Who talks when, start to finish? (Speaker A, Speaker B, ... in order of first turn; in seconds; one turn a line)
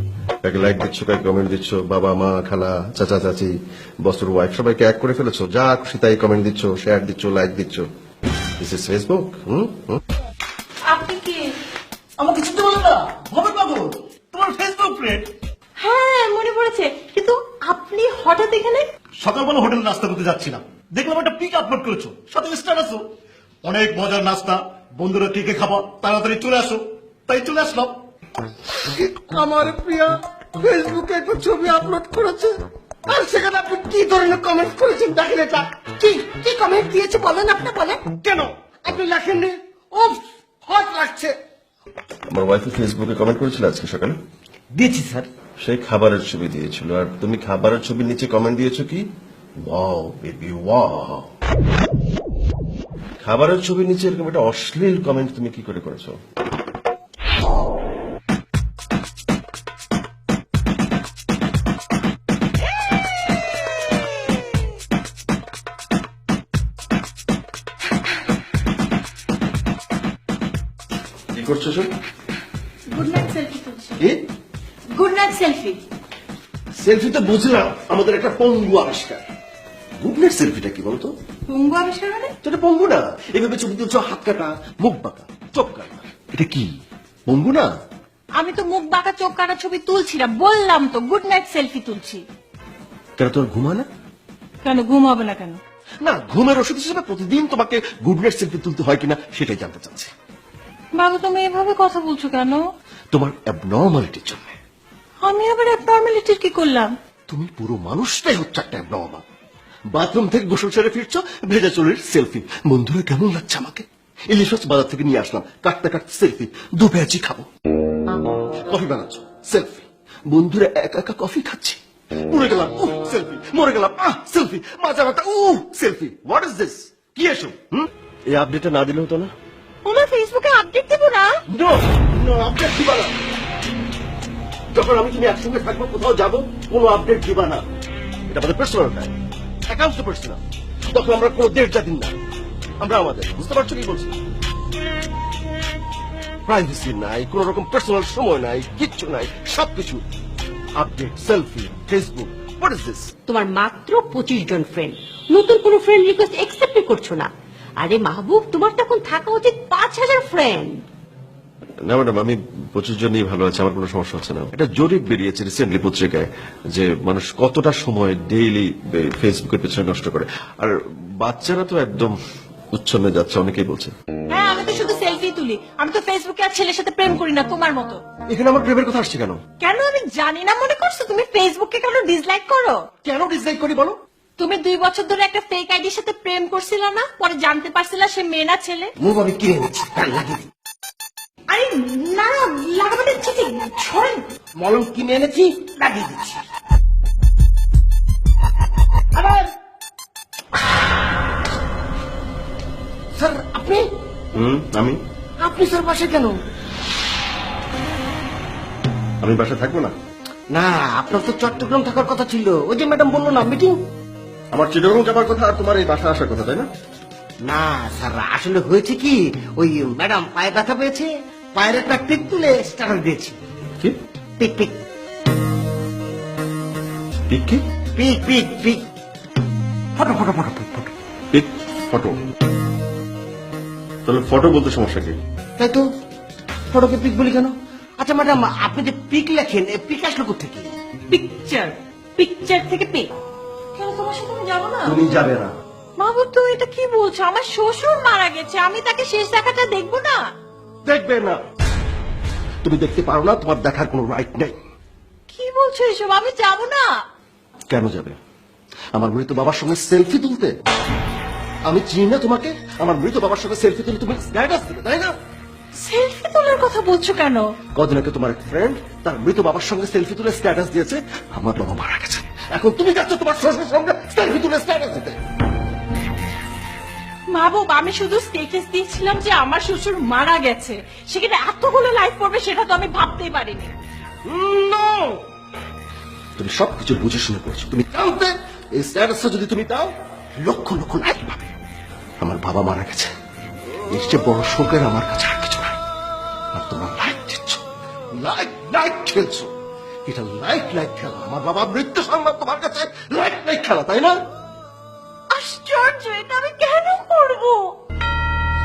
Speaker A: 0.4-7.9
Speaker A: 8.6-10.0
Speaker B: 10.9-11.5
Speaker C: 12.2-15.2
Speaker A: 14.4-14.9
Speaker B: 15.8-18.9
Speaker C: 19.2-23.0
Speaker A: 19.3-22.9
Speaker C: 23.6-26.8
Speaker A: 24.2-24.5
Speaker A: 25.1-26.7
Speaker C: 27.3-27.9
Speaker A: 27.5-27.9
Speaker D: 28.8-32.5
Speaker D: 33.1-41.4
Speaker A: 42.3-44.2
Speaker D: 44.8-45.3
Speaker A: 45.6-49.0
Speaker A: 49.6-51.3
Speaker A: 53.2-56.2
Speaker A: 71.3-71.9
Speaker B: 72.9-74.0
Speaker B: 75.0-75.8
Speaker A: 76.8-79.2
Speaker A: 80.0-81.1
Speaker B: 81.5-82.3
Speaker A: 82.4-86.7
Speaker A: 87.3-87.7
Speaker B: 88.4-92.2
Speaker A: 93.2-93.9
Speaker B: 94.6-95.6
Speaker A: 96.0-100.1
Speaker B: 101.0-102.6
Speaker A: 103.1-104.5
Speaker B: 105.2-106.9
Speaker A: 107.3-109.2
Speaker A: 109.9-117.5
Speaker A: 118.7-129.3
Speaker B: 129.8-131.3
Speaker A: 131.5-133.2
Speaker A: 134.7-137.7
Speaker A: 138.3-139.1
Speaker A: 139.7-142.2
Speaker A: 142.8-144.1
Speaker A: 146.5-150.0
Speaker A: 150.8-153.1
Speaker E: 153.3-160.8
Speaker A: 161.8-172.2
Speaker A: 172.7-173.9
Speaker B: 174.3-178.0
Speaker A: 178.3-179.4
Speaker B: 179.6-182.8
Speaker A: 183.0-184.0
Speaker B: 184.4-188.9
Speaker D: 189.0-190.5
Speaker B: 191.5-194.2
Speaker D: 194.6-196.4
Speaker D: 199.1-199.5
Speaker D: 203.2-203.8
Speaker A: 204.3-205.0
Speaker D: 205.4-206.4
Speaker A: 209.2-209.9
Speaker D: 210.5-213.8
Speaker A: 214.5-216.7
Speaker D: 217.4-223.4
Speaker D: 224.4-224.8
Speaker A: 227.3-227.6
Speaker D: 227.9-228.8
Speaker D: 230.0-230.9
Speaker A: 231.3-232.2
Speaker A: 234.1-235.2
Speaker D: 235.6-235.9
Speaker D: 236.7-240.7
Speaker B: 241.1-243.1
Speaker B: 243.8-245.0
Speaker A: 244.8-245.5
Speaker B: 246.0-250.2
Speaker A: 250.9-251.4
Speaker A: 252.6-254.6
Speaker B: 255.3-256.9
Speaker A: 257.7-258.2
Speaker A: 258.9-260.5
Speaker A: 261.7-265.2
Speaker B: 265.8-267.5
Speaker A: 267.8-275.2
Speaker B: 277.3-283.7
Speaker A: 284.3-285.2
Speaker A: 286.4-291.5
Speaker A: 292.2-293.1
Speaker A: 293.9-295.8
Speaker A: 296.5-297.6
Speaker A: 298.2-299.5
Speaker A: 300.1-304.1
Speaker B: 305.3-307.8